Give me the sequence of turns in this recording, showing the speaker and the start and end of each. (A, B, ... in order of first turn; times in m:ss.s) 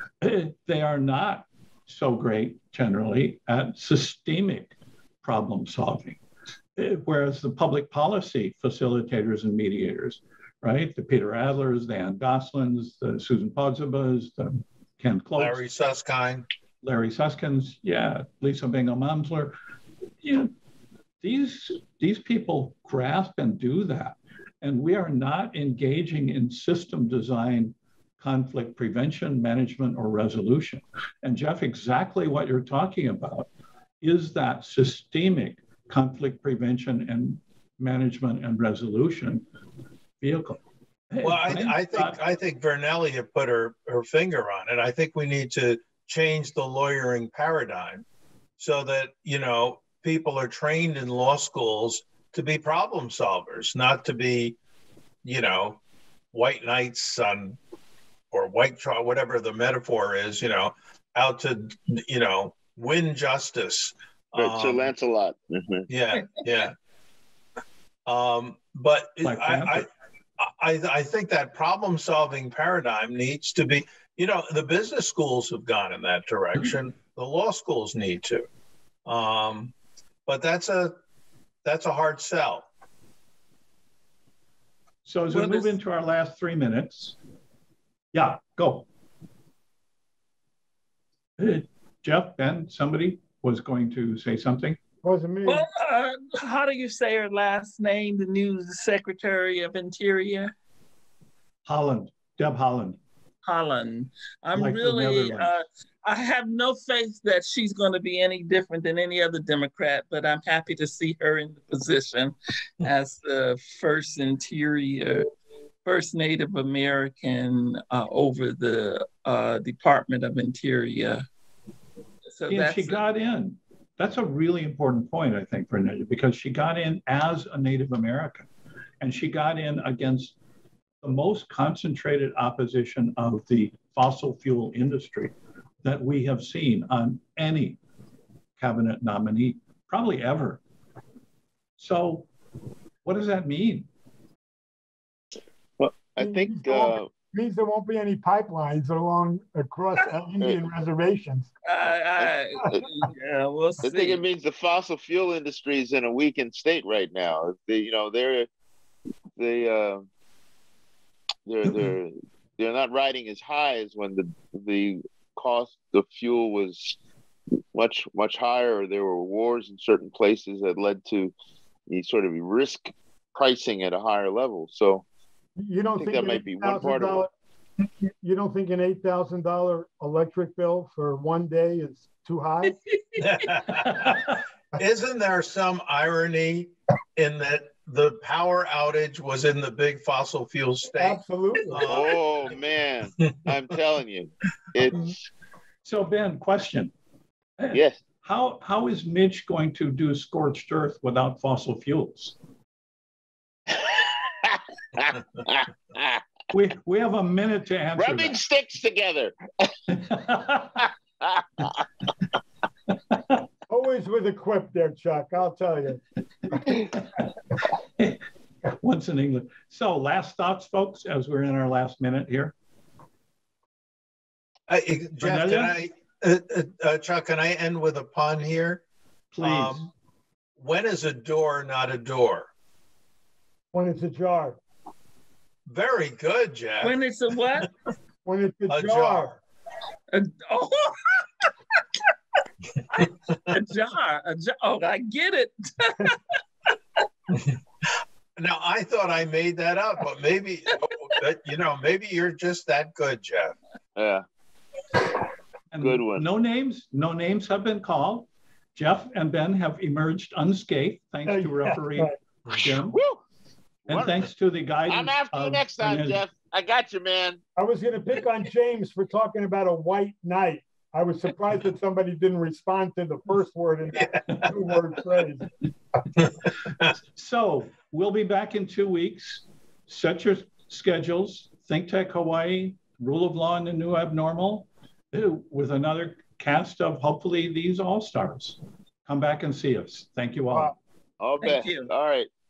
0:00.2-0:06.2 A
0:06.8-0:15.6 A
0:15.4-0:16.4 B
0:16.8-0:19.5 A
0:20.2-0:20.5 A
0:21.2-0:33.5 A
0:34.0-0:39.4 A
0:40.2-0:42.2 A
0:41.2-0:48.0 B
0:48.6-0:54.6 B
0:55.2-0:55.8 B
0:56.3-0:57.6 B
0:58.3-1:04.9 B
1:04.3-1:05.9 C
1:05.9-1:06.7 B
1:08.0-1:09.9 B
1:09.2-1:09.8 A
1:10.4-1:18.5 B
1:19.0-1:19.7 B
1:20.3-1:20.9 B
1:21.6-1:22.6 B
1:25.0-1:27.1 A
1:25.3-1:25.7 D
1:28.1-1:28.8 A
1:31.4-1:34.8 A
1:35.0-1:35.6 E
1:35.4-1:40.5 D
1:41.6-1:43.0 A
1:43.4-1:55.3 D
1:44.5-1:45.5 A
1:55.8-2:01.2 D
2:02.3-2:03.0 D
2:02.5-2:08.5 A
2:09.0-2:10.4 A
2:11.0-2:17.8 A
2:18.6-2:20.6 A
2:21.8-2:22.3 A
2:23.0-2:23.9 A
2:25.8-2:27.1 C
2:26.2-2:31.5 E
2:31.6-2:34.2 D
2:32.2-2:32.9 C
2:33.8-2:38.5 C
2:39.4-2:40.0 C
2:41.4-2:47.0 C
2:47.7-2:51.3 C
2:51.9-2:55.0 C
2:55.6-2:57.3 E
2:56.0-2:57.2 C
2:58.2-3:02.8 E
3:02.8-3:03.4 D
3:03.2-3:04.2 B
3:03.7-3:04.4 A
3:04.7-3:11.2 B
3:10.9-3:11.9 E
3:11.7-3:12.2 B
3:11.8-3:15.2 C
3:15.8-3:16.9 A
3:17.6-3:22.3 A
3:17.7-3:18.0 C
3:23.7-3:26.2 C
3:26.5-3:28.4 A
3:28.0-3:29.7 C
3:29.9-3:30.9 A
3:31.2-3:31.8 C
3:33.7-3:36.7 E
3:38.8-3:42.5 A
3:44.7-3:48.8 B
3:45.2-3:45.8 A
3:49.3-3:49.9 A
3:49.4-3:49.8 B
3:50.6-3:52.5 B
3:53.7-3:54.6 E
3:55.7-3:57.0 B
3:56.8-3:57.7 D
3:58.2-3:59.3 E
3:58.7-3:59.4 B
4:00.1-4:01.5 D
4:02.9-4:06.2 D
4:03.0-4:03.5 B
4:08.4-4:13.5 B
4:14.0-4:14.2 C
4:15.7-4:23.0 A
4:15.8-4:16.2 C
4:21.2-4:22.2 E
4:22.9-4:23.2 C
4:23.9-4:24.2 C
4:23.9-4:26.2 A
4:24.9-4:27.4 C
4:27.6-4:35.5 E
4:37.0-4:50.8 A
4:51.2-4:52.3 C
4:51.4-4:51.9 D